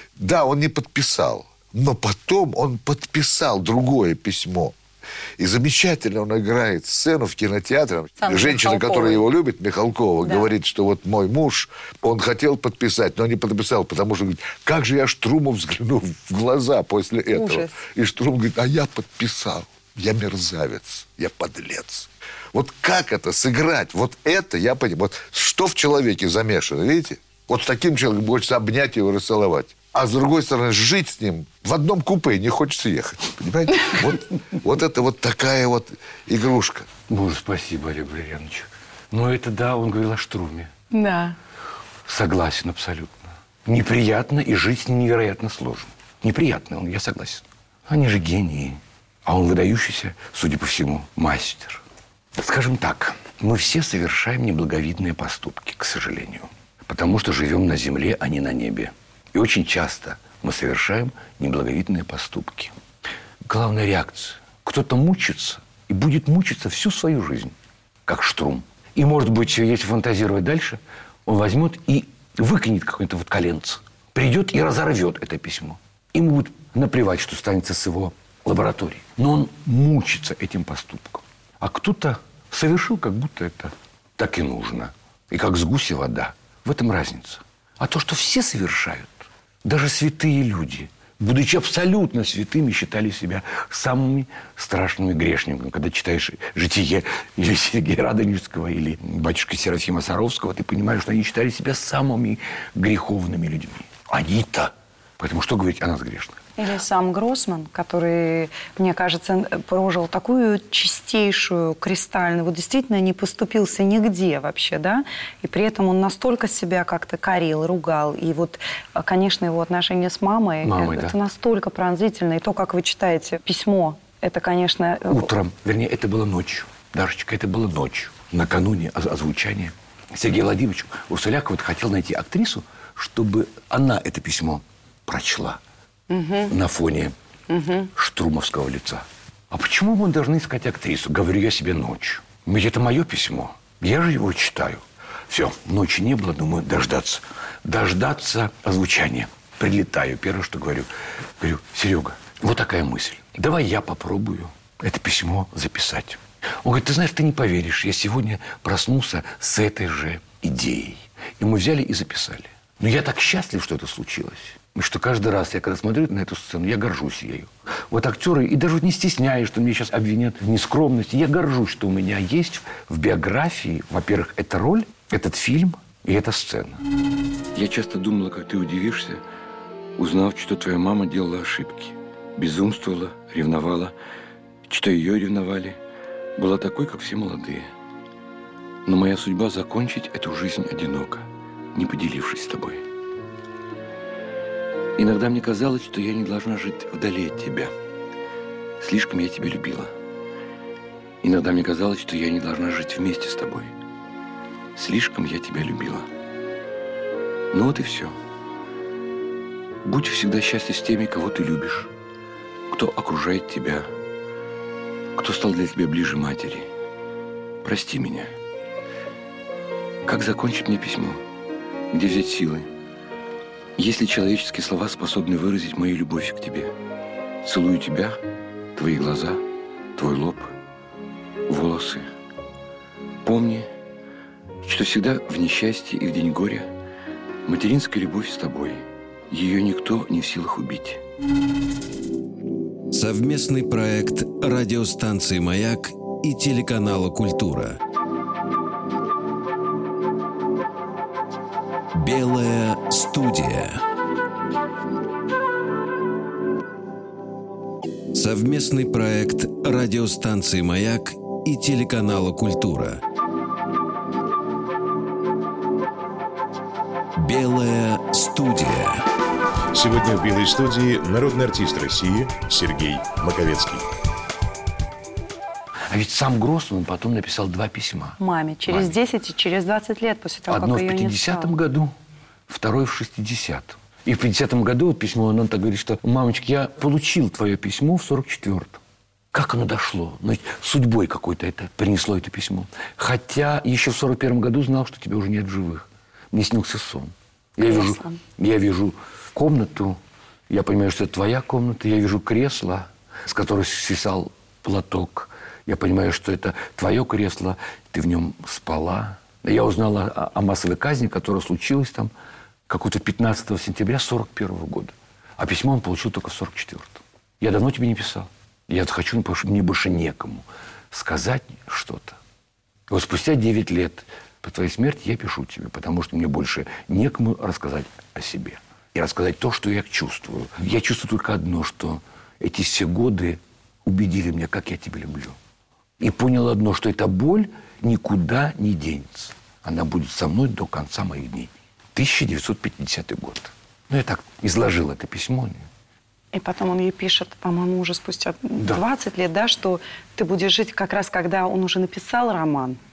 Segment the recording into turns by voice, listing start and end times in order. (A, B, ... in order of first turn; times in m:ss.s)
0:00.2-0:04.8 A
0:05.4-0:36.9 A
0:08.2-0:09.2 B
0:10.2-0:10.5 B
0:17.3-0:17.8 B
0:37.1-0:40.7 C
0:40.9-0:41.4 B
0:42.1-0:51.8 C
0:52.4-1:02.7 C
1:03.4-1:07.6 C
1:08.1-1:46.4 C
1:46.6-2:05.3 B
2:00.6-2:01.2 C
2:05.1-2:15.6 C
2:16.1-2:16.5 B
2:16.5-2:17.1 C
2:17.5-2:17.9 B
2:17.9-2:56.8 C
2:57.5-2:59.2 C
3:00.0-3:03.9 C
3:04.7-3:05.8 C
3:06.4-3:07.7 C
3:08.8-3:12.8 C
3:15.0-3:17.7 C
3:18.8-3:19.9 C
3:21.2-3:23.7 C
3:24.8-3:26.1 C
3:27.5-3:28.2 C
3:29.8-3:31.9 C
3:32.7-3:33.9 C
3:35.2-3:36.7 C
3:37.6-3:38.4 C
3:40.0-3:41.2 C
3:41.9-3:42.7 C
3:43.8-3:46.7 C
3:47.4-3:48.2 C
3:48.8-3:49.4 C
3:50.0-3:50.6 C
3:51.5-3:52.1 C
3:53.2-3:53.7 C
3:54.6-3:56.7 C
3:57.4-4:01.0 C
4:02.9-4:07.8 D
4:11.9-4:13.8 D
4:18.1-4:23.0 D
4:27.2-4:29.0 D
4:29.7-4:33.8 E
4:35.9-4:38.9 C
4:38.2-4:41.5 B
4:40.5-4:41.9 C
4:42.5-4:48.8 C
4:49.3-5:00.0 C
4:57.7-4:58.2 B
5:00.5-5:12.1 C
5:12.7-5:22.2 C
5:22.9-5:35.4 C
5:36.0-5:45.7 C
5:46.3-5:52.8 B